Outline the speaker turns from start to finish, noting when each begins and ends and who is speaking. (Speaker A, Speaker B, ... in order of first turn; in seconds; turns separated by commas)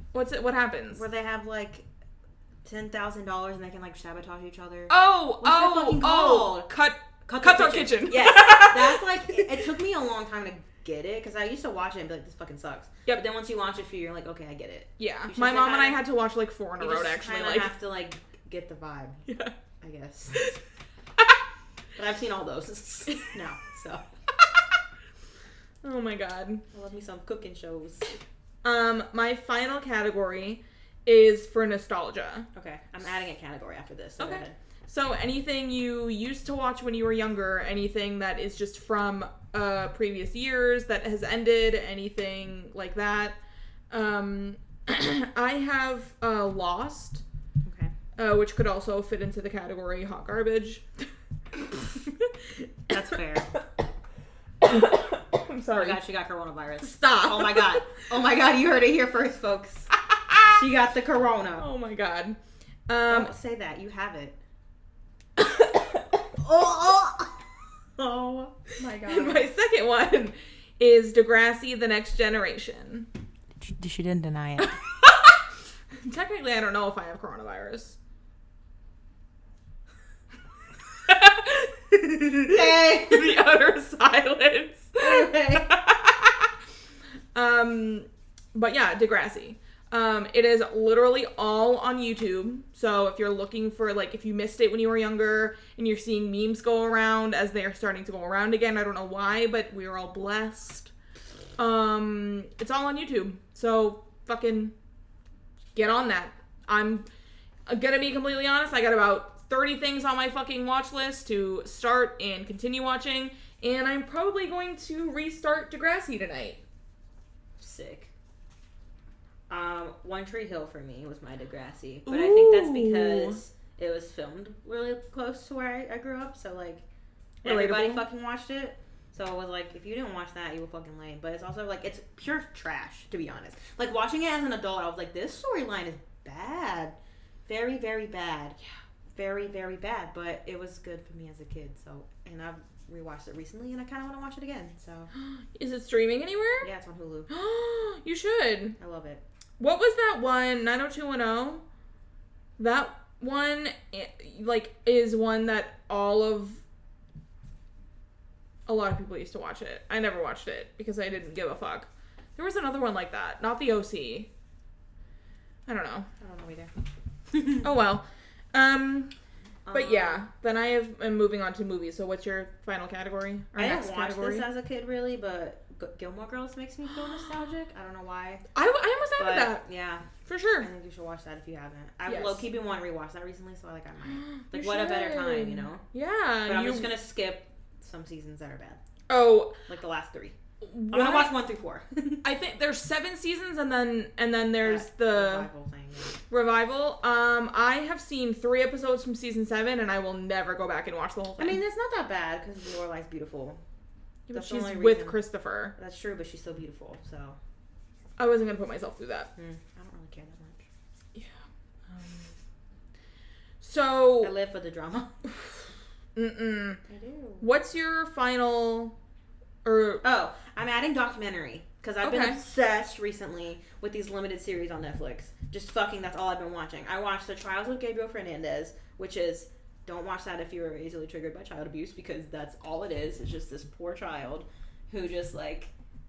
Speaker A: 0.1-1.0, Speaker B: 0.9-1.9, Speaker B: 2.6-6.7, Speaker A: 4.9-9.5, Speaker B: 7.2-16.0, Speaker A: 15.0-17.7, Speaker B: 16.8-19.3, Speaker A: 19.3-19.5, Speaker B: 19.8-20.5, Speaker B: 21.9-24.0, Speaker A: 25.8-26.6, Speaker B: 26.7-28.1, Speaker A: 28.6-32.5, Speaker B: 32.5-34.5, Speaker A: 34.2-43.4, Speaker A: 43.9-47.2, Speaker B: 47.6-47.9, Speaker A: 48.1-50.9, Speaker A: 51.7-52.7, Speaker B: 52.9-53.5, Speaker A: 54.6-56.0, Speaker B: 55.7-59.9, Speaker A: 56.8-57.8, Speaker A: 60.2-60.5, Speaker B: 60.4-61.7, Speaker A: 61.6-63.3, Speaker B: 63.1-64.4, Speaker A: 65.4-65.6, Speaker B: 66.3-67.4, Speaker B: 68.0-69.5, Speaker A: 69.0-73.1, Speaker B: 73.6-74.8, Speaker A: 74.6-75.4, Speaker A: 75.9-78.0, Speaker A: 81.0-86.5, Speaker B: 82.4-83.3, Speaker B: 85.0-85.7, Speaker A: 87.3-100.9, Speaker A: 101.6-104.7, Speaker A: 105.7-107.1, Speaker A: 107.7-116.6, Speaker B: 117.6-118.1, Speaker B: 119.5-126.8, Speaker A: 122.1-123.4, Speaker B: 127.4-138.6, Speaker A: 127.4-128.0, Speaker B: 139.1-145.1, Speaker A: 145.1-146.7, Speaker B: 146.6-147.3, Speaker A: 147.3-148.8, Speaker B: 148.8-149.2, Speaker A: 149.6-151.6, Speaker A: 152.6-156.6, Speaker A: 158.7-164.3, Speaker A: 165.7-166.1, Speaker B: 166.2-166.7, Speaker A: 167.6-169.1, Speaker B: 169.7-170.2, Speaker A: 169.7-174.5, Speaker B: 173.5-178.4, Speaker A: 178.5-179.6, Speaker B: 179.2-180.1, Speaker A: 180.2-180.7, Speaker B: 180.6-185.8, Speaker A: 182.1-182.4, Speaker A: 184.0-186.9, Speaker B: 186.5-188.8, Speaker A: 189.1-189.6, Speaker B: 189.7-190.3, Speaker A: 190.6-191.3, Speaker B: 190.9-192.2, Speaker A: 192.2-195.5, Speaker B: 194.6-196.2, Speaker A: 196.3-201.6, Speaker B: 201.4-203.6, Speaker A: 204.3-205.7, Speaker B: 204.3-205.2, Speaker B: 205.8-207.4, Speaker A: 208.2-209.3, Speaker B: 209.3-210.6, Speaker A: 211.9-212.3, Speaker A: 213.6-214.3, Speaker B: 214.2-215.1, Speaker A: 216.1-216.8, Speaker B: 216.9-217.5, Speaker A: 217.4-218.9, Speaker A: 219.6-220.0, Speaker B: 220.0-235.7, Speaker A: 222.0-222.4